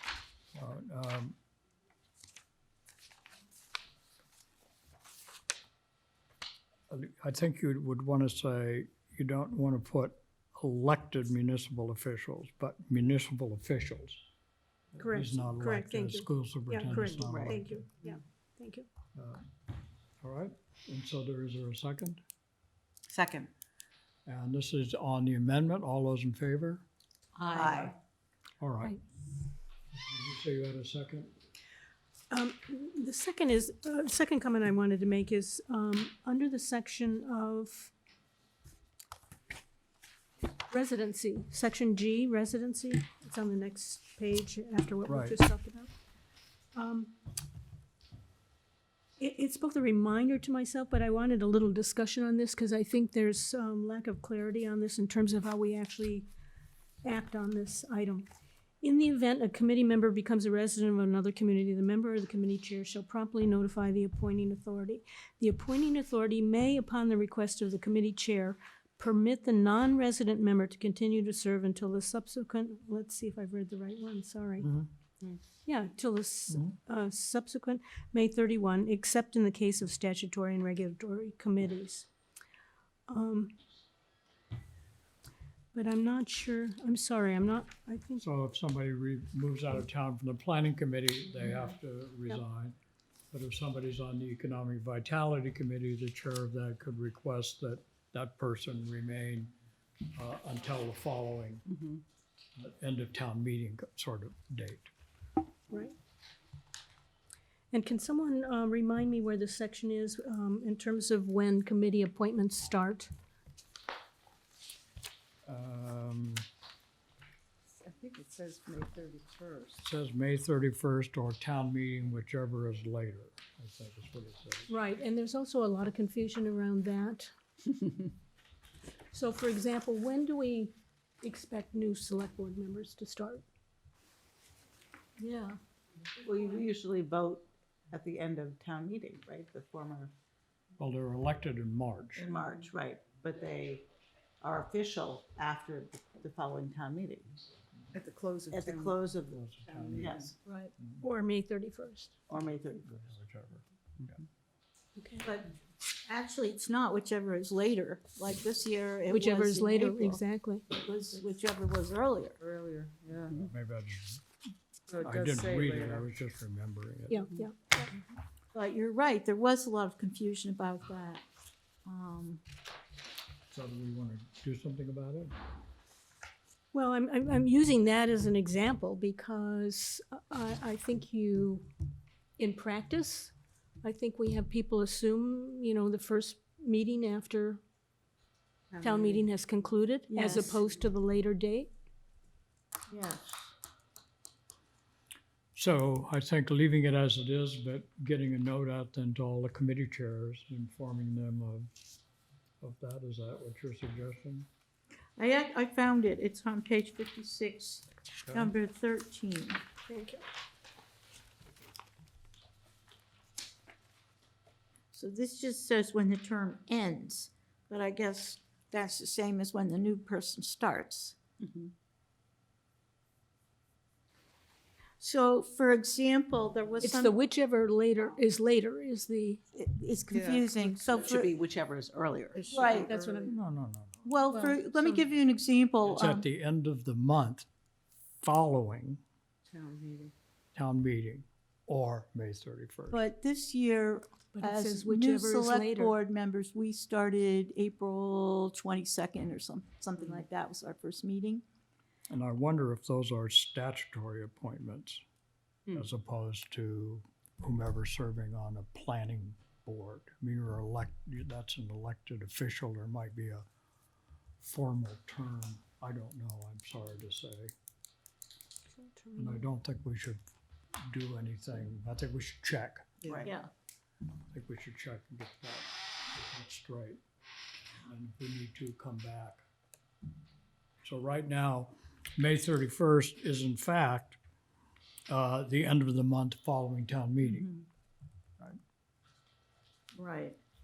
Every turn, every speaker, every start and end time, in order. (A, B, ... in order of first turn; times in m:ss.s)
0:00.6-0:01.4 A
0:06.9-0:14.2 A
0:15.0-0:17.8 A
0:15.0-0:18.9 B
0:17.2-0:17.6 C
0:19.2-0:19.4 A
0:20.2-0:22.2 A
0:23.1-0:23.5 C
0:24.3-0:26.8 A
0:27.4-0:27.9 C
0:27.5-0:27.9 D
0:28.6-0:29.0 A
0:29.9-0:31.3 A
0:32.3-0:37.9 B
0:40.7-0:45.9 B
0:45.1-0:45.4 A
0:46.8-0:47.1 B
0:49.2-0:56.3 B
0:57.0-0:58.3 B
0:58.8-1:14.7 B
1:14.6-1:14.9 A
1:15.7-1:22.1 B
1:16.5-1:16.8 A
1:23.1-1:23.6 B
1:25.7-1:28.3 B
1:28.2-1:32.8 A
1:33.3-1:39.5 A
1:40.1-1:41.7 A
1:42.6-1:44.9 A
1:47.7-1:53.1 B
1:55.5-1:56.5 A
1:57.8-1:59.7 C
1:58.3-1:59.6 E
1:59.8-2:04.7 A
2:04.7-2:07.3 B
2:09.1-2:13.4 B
2:15.2-2:15.6 B
2:16.2-2:20.1 C
2:20.8-2:22.3 A
2:22.2-2:23.9 C
2:24.4-2:27.3 C
2:27.9-2:29.0 E
2:28.5-2:30.4 C
2:29.3-2:31.0 A
2:31.0-2:32.2 B
2:32.3-2:32.9 C
2:32.3-2:34.2 A
2:35.0-2:35.3 B
2:35.2-2:35.5 D
2:36.0-2:42.4 D
2:39.1-2:40.6 B
2:42.4-2:43.4 E
2:43.3-2:44.2 A
2:44.9-2:46.1 E
2:45.0-2:47.3 A
2:47.1-2:48.0 B
2:48.5-2:51.2 D
2:51.8-2:52.4 D
2:53.5-2:55.4 A
2:56.7-3:01.7 B
3:02.4-3:07.6 B
3:08.8-3:11.7 B
3:10.1-3:10.6 D
3:12.9-3:13.4 D
3:15.5-3:21.7 A
3:22.6-3:24.5 A
3:25.2-3:29.6 D
3:29.9-3:30.2 B
3:34.9-3:41.2 D
3:41.4-3:41.7 C
3:45.0-3:47.1 D
3:46.8-3:49.4 B
3:49.5-3:51.4 D
3:50.1-3:51.1 E
3:50.7-3:53.0 C
3:52.4-3:53.3 E
3:52.5-3:52.9 D
3:52.5-3:53.4 B
3:53.3-3:54.1 A
3:54.0-3:56.2 D
3:54.3-3:55.0 B
3:55.8-3:57.5 A
3:58.2-3:59.0 A
3:59.5-3:59.9 E
3:59.6-4:00.1 C
4:00.6-4:03.0 A
4:02.9-4:11.4 D
4:04.3-4:06.0 B
4:12.1-4:15.0 A
4:15.7-4:23.5 A
4:24.4-4:27.5 A
4:28.7-4:29.5 B
4:29.2-4:30.2 A
4:30.8-4:32.9 A
4:33.0-4:33.3 C
4:33.1-4:33.5 D
4:34.3-4:37.0 A
4:37.8-4:39.5 A
4:40.8-4:44.2 A
4:45.1-4:47.5 A
4:47.2-4:47.6 D
4:50.0-4:50.4 D